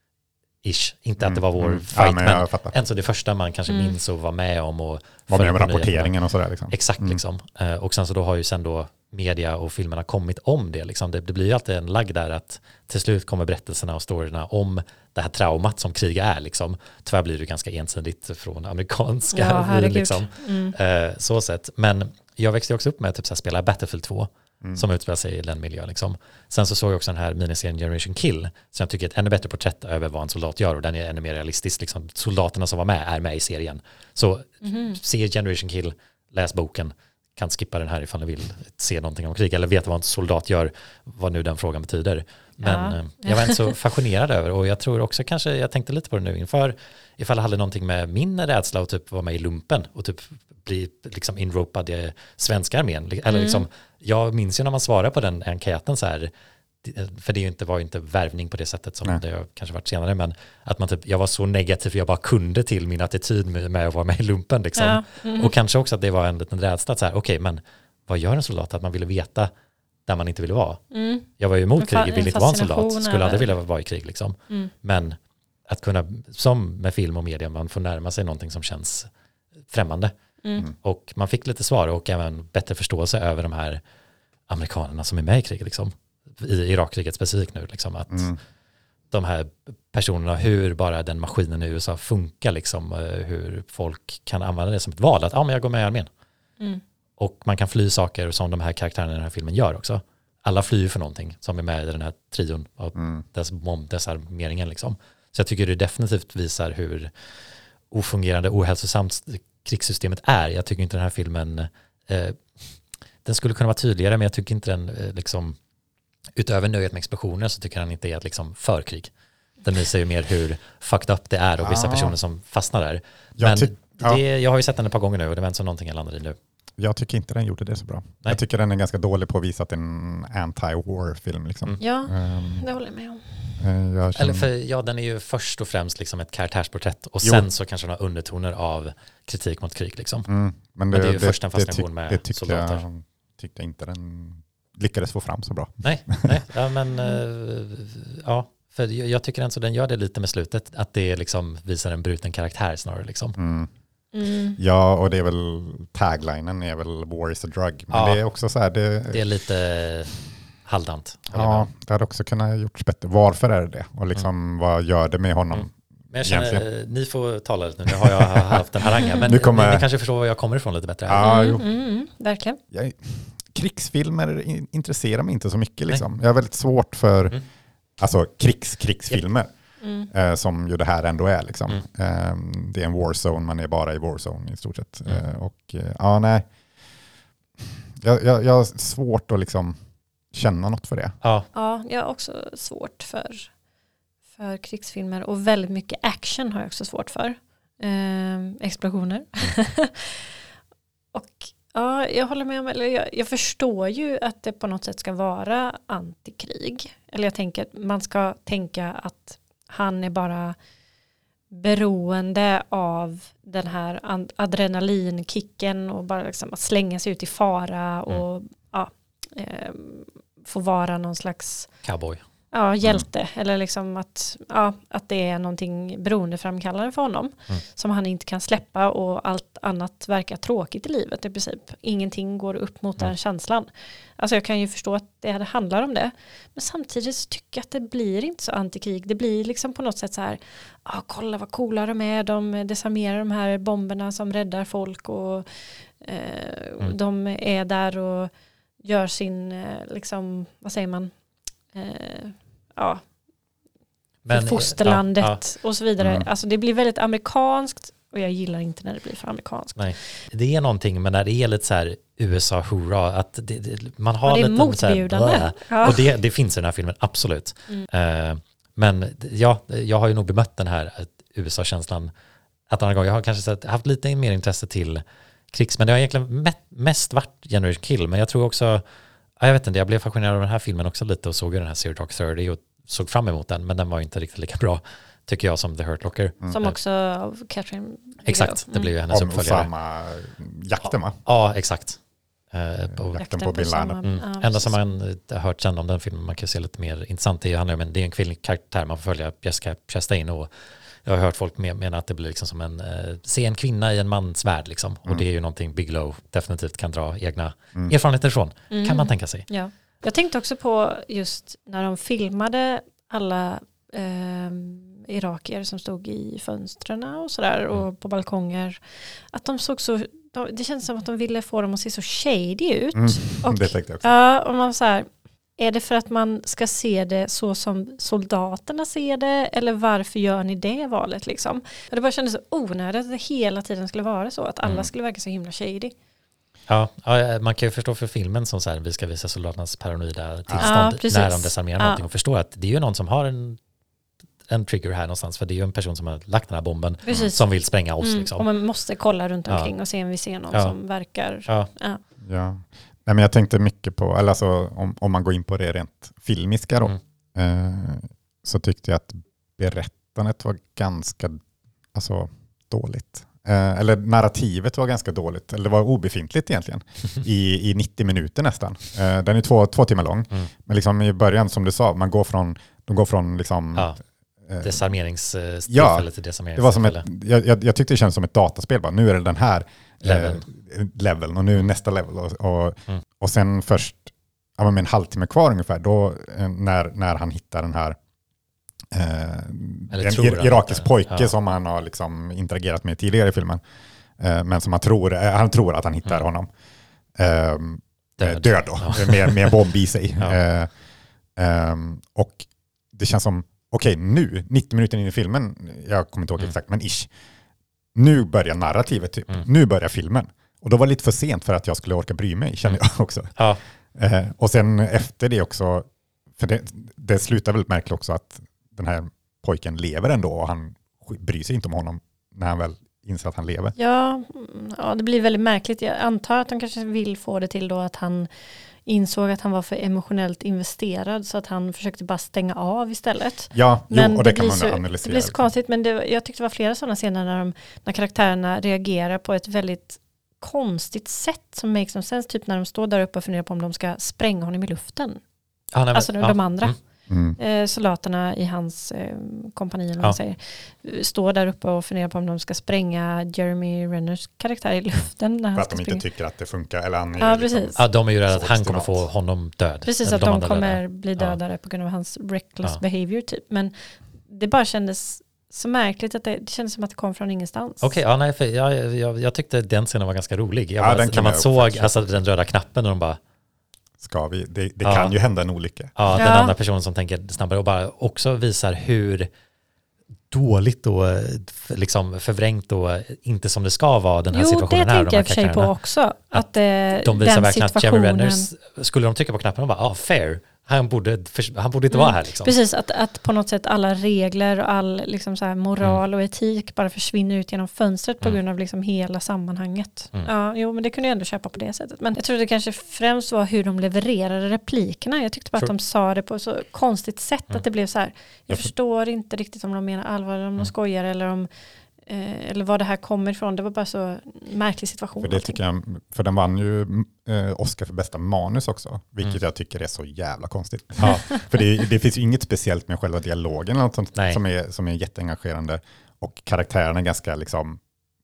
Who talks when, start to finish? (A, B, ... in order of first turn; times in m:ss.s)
0:00.6-0:06.1 A
0:01.2-0:02.7 B
0:03.7-0:03.9 C
0:05.3-0:07.2 B
0:06.7-0:56.3 A
0:19.3-0:20.8 C
0:34.6-0:35.0 C
0:42.6-0:43.7 C
0:53.3-0:53.6 C
0:56.8-1:09.5 A
1:04.8-1:05.5 C
1:10.1-1:10.8 A
1:10.9-1:11.3 C
1:11.4-1:15.2 A
1:11.8-1:13.5 C
1:15.7-1:19.1 A
1:19.7-1:20.1 A
1:20.8-1:23.8 A
1:24.5-1:28.3 A
1:28.1-1:28.4 B
1:29.1-1:36.1 A
1:37.2-1:47.1 A
1:43.0-1:43.2 B
1:47.9-1:52.4 A
1:53.2-1:55.6 A
1:56.4-1:59.1 A
1:59.6-2:06.4 A
2:01.6-2:02.1 B
2:03.4-2:04.2 B
2:06.8-2:12.7 B
2:11.8-2:13.6 C
2:13.6-2:14.5 B
2:14.2-2:20.3 A
2:20.3-2:26.3 B
2:20.9-2:22.8 A
2:25.8-2:33.4 A
2:33.4-2:33.7 B
2:34.1-2:34.6 C
2:34.6-2:39.2 B
2:37.9-2:38.2 A
2:39.1-2:40.1 A
2:40.7-2:41.7 A
2:41.3-2:46.6 B
2:45.5-2:51.3 A
2:47.9-2:49.9 B
2:51.1-2:51.7 B
2:51.2-2:52.6 C
2:52.7-2:57.4 B
2:58.0-2:59.5 B
2:59.8-3:00.1 C
3:00.1-3:06.5 B
3:08.0-3:09.8 B
3:10.3-3:11.2 B
3:11.2-3:11.5 A
3:11.5-3:13.5 C
3:14.4-3:20.3 C
3:21.1-3:30.6 C
3:31.5-3:41.7 C
3:41.8-3:42.2 A
3:42.5-4:05.5 C
4:06.0-4:08.3 C
4:08.8-4:11.1 C
4:11.7-4:13.0 C
4:14.2-4:15.4 A
4:14.3-4:20.0 C
4:16.0-4:16.3 B
4:19.8-4:32.1 A
4:24.3-4:26.1 C
4:32.7-4:38.8 A
4:39.4-4:46.8 A
4:46.5-4:48.9 C
4:48.2-4:49.7 A
4:49.1-4:51.2 B
4:51.2-4:52.0 A
4:52.5-4:53.2 A
4:52.9-4:54.0 B
4:53.2-4:54.8 C
4:54.0-5:00.5 A
5:01.0-5:09.4 A
5:08.7-5:35.9 C
5:22.9-5:24.1 B
5:36.7-5:43.6 A
5:40.5-5:40.8 B
5:40.6-5:42.0 C
5:44.5-5:48.5 A
5:47.0-5:47.4 C
5:48.0-5:52.0 C
5:52.2-6:01.4 B
6:01.9-6:13.9 B
6:14.5-6:14.8 B
6:14.6-6:17.0 A
6:15.7-6:28.0 B
6:20.0-6:20.4 A
6:28.9-6:33.6 B
6:29.9-6:31.3 A
6:34.2-6:36.5 B
6:37.2-6:40.7 B
6:38.2-6:39.6 A
6:41.4-6:47.1 B
6:48.0-6:53.4 B
6:54.0-7:03.8 B
7:03.8-7:08.3 C
7:08.8-7:25.2 C
7:13.5-7:15.4 B
7:25.7-7:26.8 A
7:25.9-7:26.8 C
7:27.1-7:27.4 B
7:27.4-7:36.0 C
7:35.6-7:39.0 B
7:37.2-7:37.8 C
7:37.8-7:41.4 A
7:39.9-7:47.9 C
7:47.8-7:53.2 A
7:50.8-7:52.0 B
7:54.0-7:55.9 B
7:54.8-7:55.1 A
7:56.0-7:59.3 A
7:56.2-7:56.5 C
8:00.3-8:05.7 A
8:04.3-8:08.5 C
8:06.3-8:12.6 A
8:11.9-8:31.5 C
8:32.1-8:35.6 C
8:35.2-8:47.8 B
8:41.0-8:41.4 A